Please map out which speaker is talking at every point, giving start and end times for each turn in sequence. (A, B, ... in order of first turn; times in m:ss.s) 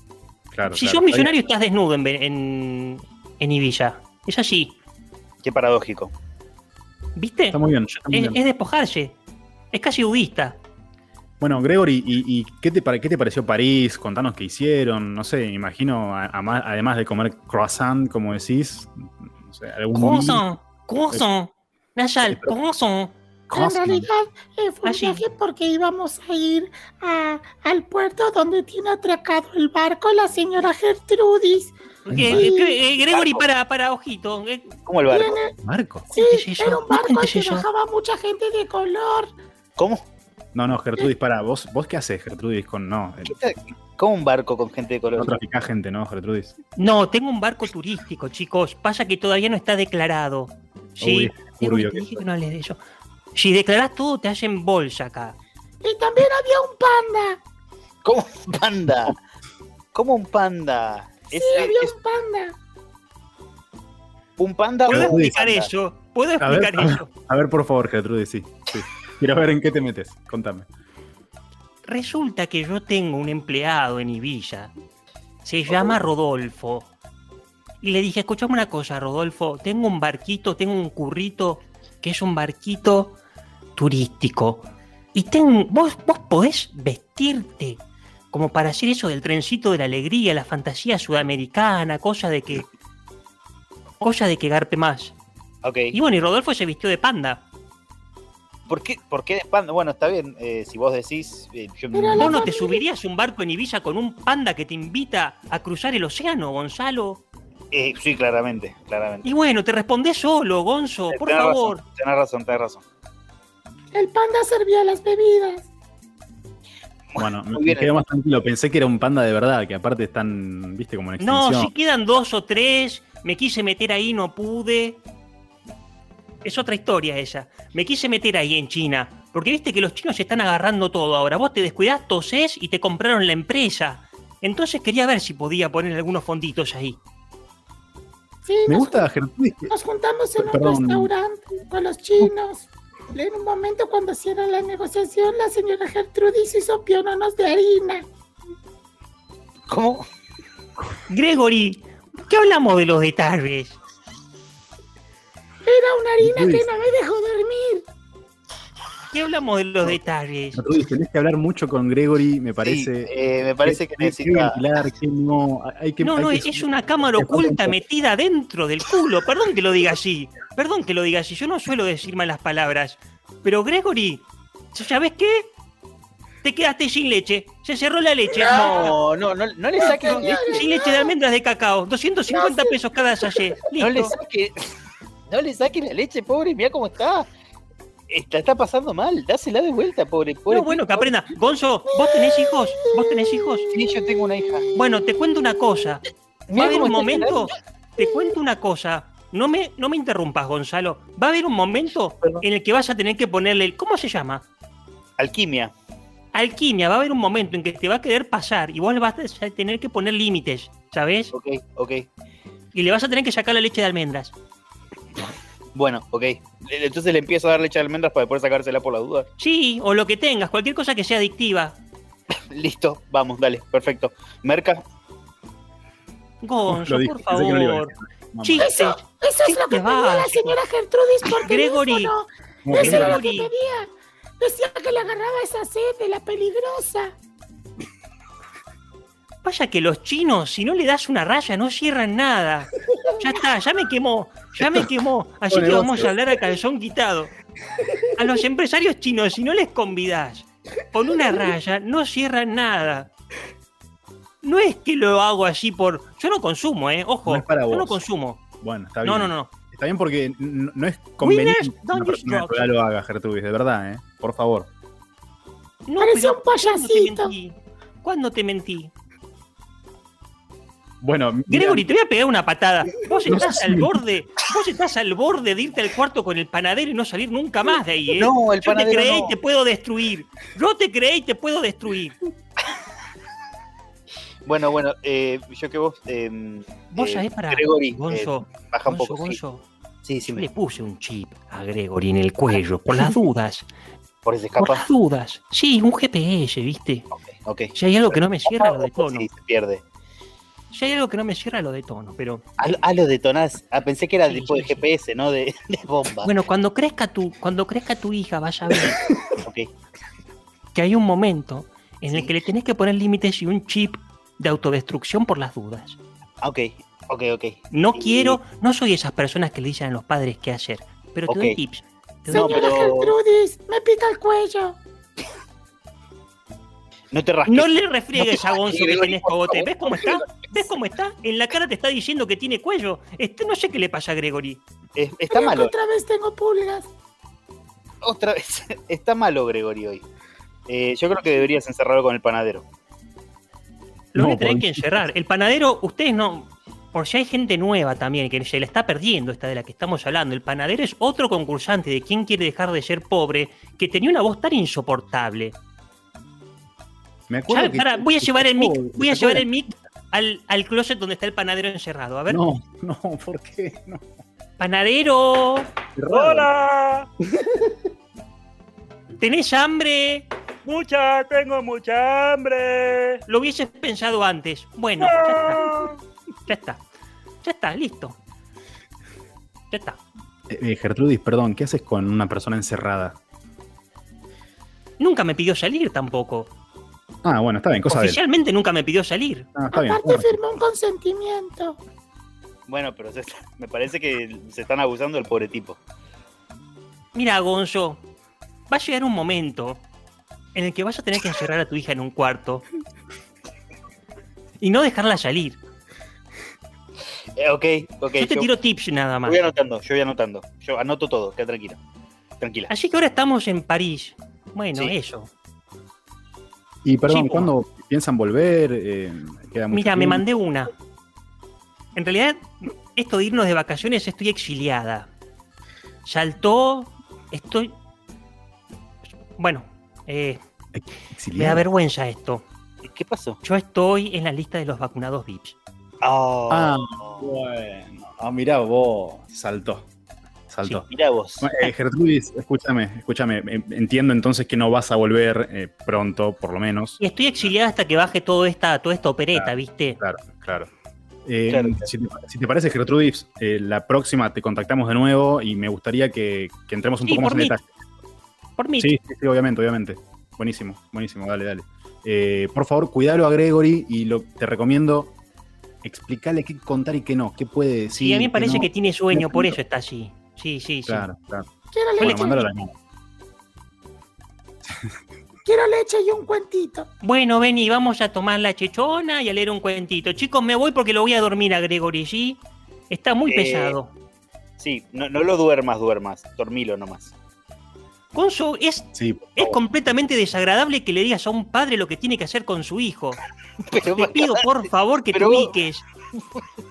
0:00.5-0:01.4 A
0:00.7-0:04.8 B
0:05.4-0:06.1 C
0:07.2-0:09.2 B
0:07.5-0:08.4 A
0:09.7-0:10.6 B
0:11.4-0:20.4 A
0:19.9-0:23.2 B
0:22.2-0:22.6 A
0:23.5-0:32.8 D
0:23.5-0:24.1 A
0:24.8-0:25.2 B
0:32.1-0:34.8 B
0:32.1-0:32.5 A
0:33.0-0:33.4 C
0:34.9-0:35.4 C
0:35.1-0:35.5 D
0:35.6-0:36.1 A
0:36.1-0:39.3 D
0:36.1-0:37.7 B
0:39.8-0:40.0 C
0:40.5-0:43.4 A
0:43.2-0:45.4 C
0:45.2-0:46.5 A
0:46.8-0:52.8 B
0:51.0-0:52.2 A
0:53.3-0:55.4 B
0:55.8-0:57.4 D
0:58.0-0:59.2 C
0:59.9-1:01.9 C
1:01.3-1:02.6 D
1:04.4-1:05.7 C
1:04.9-1:07.1 B
1:04.9-1:05.4 A
1:06.4-1:10.7 A
1:11.8-1:14.7 B
1:15.4-1:16.9 B
1:17.8-1:23.2 B
1:23.8-1:32.7 B
1:34.0-1:35.2 B
1:35.6-1:36.0 C
1:35.9-1:37.4 B
1:38.7-1:42.4 C
1:41.9-1:42.8 D
1:42.2-1:47.2 B
1:47.7-1:49.3 C
1:49.2-1:51.8 B
1:51.1-1:52.8 C
1:53.9-1:55.7 D
1:57.1-1:58.0 C
1:57.2-2:01.7 A
2:01.2-2:05.0 B
2:06.4-2:17.0 B
2:18.4-2:19.1 D
2:18.7-2:19.7 A
2:19.7-2:28.1 D
2:20.4-2:21.1 A
2:29.7-2:30.0 C
2:31.1-2:33.8 B
2:35.6-2:37.8 D
2:36.2-2:36.7 A
2:39.1-2:40.6 B
2:40.6-2:43.1 A
2:42.6-2:44.6 C
2:43.6-2:47.8 A
2:46.0-2:55.5 B
2:56.4-2:59.0 B
2:58.3-2:58.9 D
2:58.7-3:00.7 C
2:59.8-3:01.1 D
2:59.9-3:04.2 B
3:02.3-3:02.8 D
3:03.8-3:04.7 C
3:05.3-3:07.3 C
3:08.1-3:11.1 C
3:10.5-3:13.7 B
3:12.2-3:15.6 D
3:13.7-3:14.7 C
3:14.8-3:24.5 B
3:16.5-3:17.5 C
3:16.9-3:17.3 D
3:25.2-3:25.7 C
3:26.3-3:31.3 B
3:31.3-3:32.1 C
3:32.7-3:34.3 B
3:35.8-3:39.3 C
3:39.4-3:41.8 B
3:42.5-3:44.8 C
3:46.4-3:50.6 B
3:46.7-3:48.7 A
3:48.6-3:57.1 D
3:51.4-3:52.1 B
3:52.6-3:53.2 A
3:52.7-3:53.5 B
3:59.4-4:07.3 B
4:04.6-4:04.9 A
4:05.5-4:06.2 A
4:08.1-4:13.1 B
4:14.4-4:18.4 B
4:17.3-4:18.1 A
4:18.6-4:24.7 A
4:19.0-4:19.5 B
4:21.2-4:22.7 B
4:25.9-4:28.9 B
4:26.0-4:27.3 D
4:31.0-4:31.9 A
4:31.5-4:42.2 B
4:33.3-4:34.0 A
4:38.1-4:39.4 C
4:44.4-4:49.4 C
4:46.9-4:49.6 B
4:50.0-4:50.5 C
4:50.2-4:53.7 B
4:54.2-4:54.9 C
4:54.6-4:57.1 B
4:57.1-4:59.8 C
4:57.8-4:59.3 B
5:00.7-5:02.4 B
5:02.6-5:06.3 C
5:04.2-5:04.9 B
5:06.2-5:09.0 B
5:08.8-5:09.7 C
5:10.7-5:16.0 B
5:12.1-5:12.3 C
5:16.4-5:18.4 C
5:17.7-5:22.7 B
5:21.3-5:21.6 C
5:22.3-5:24.8 D
5:22.4-5:23.2 C
5:27.1-5:30.3 C
5:27.5-5:34.6 B
5:35.0-5:35.7 C
5:35.3-5:36.9 D
5:38.0-5:40.0 C
5:40.7-5:42.6 C
5:44.2-5:45.0 A
5:44.2-5:55.6 B
5:57.3-5:59.5 A
5:57.5-6:02.4 B
6:02.3-6:04.0 A
6:04.6-6:05.7 B
6:06.0-6:06.5 A
6:06.1-6:07.1 E
6:09.2-6:10.3 B
6:10.6-6:13.2 E
6:13.3-6:15.8 B
6:15.1-6:15.9 E
6:16.5-6:16.8 B
6:17.4-6:18.2 B
6:19.7-6:20.0 B
6:20.5-6:23.2 A
6:25.0-6:26.5 B
6:27.2-6:28.2 A
6:27.9-6:29.5 B
6:29.6-6:30.4 A
6:29.7-6:31.8 D
6:32.7-6:35.8 C
6:37.1-6:38.0 B
6:38.7-6:39.8 B
6:40.6-6:42.6 B
6:44.6-6:45.6 B
6:47.4-6:48.5 C
6:48.1-6:49.5 B
6:49.2-6:51.8 C
6:52.4-6:52.7 C
6:52.7-6:55.3 B
6:56.8-7:00.2 A
6:57.0-6:57.5 B
6:59.7-7:00.7 B
7:02.0-7:05.1 B
7:06.0-7:07.8 B
7:09.4-7:10.4 B
7:10.7-7:11.7 A
7:11.4-7:12.4 B
7:12.8-7:13.4 C
7:13.4-7:15.6 B
7:16.0-7:17.3 C
7:16.5-7:19.9 A
7:20.5-7:20.9 A
7:20.8-7:21.5 C
7:21.4-7:27.0 A
7:27.0-7:30.0 B
7:29.3-7:30.7 A
7:31.3-7:37.8 A
7:31.5-7:31.9 C
7:37.1-7:37.6 B
7:38.6-7:38.9 B
7:38.8-7:45.2 A
7:45.8-7:49.6 A
7:47.9-7:51.1 B
7:50.9-7:51.5 A
7:51.7-7:52.5 D
7:52.0-7:52.7 A
7:55.4-7:56.9 D
7:57.0-8:03.9 B
8:03.3-8:03.8 C
8:04.6-8:07.1 C
8:08.1-8:13.2 B
8:08.9-8:09.4 A
8:13.7-8:15.5 C
8:13.8-8:15.8 B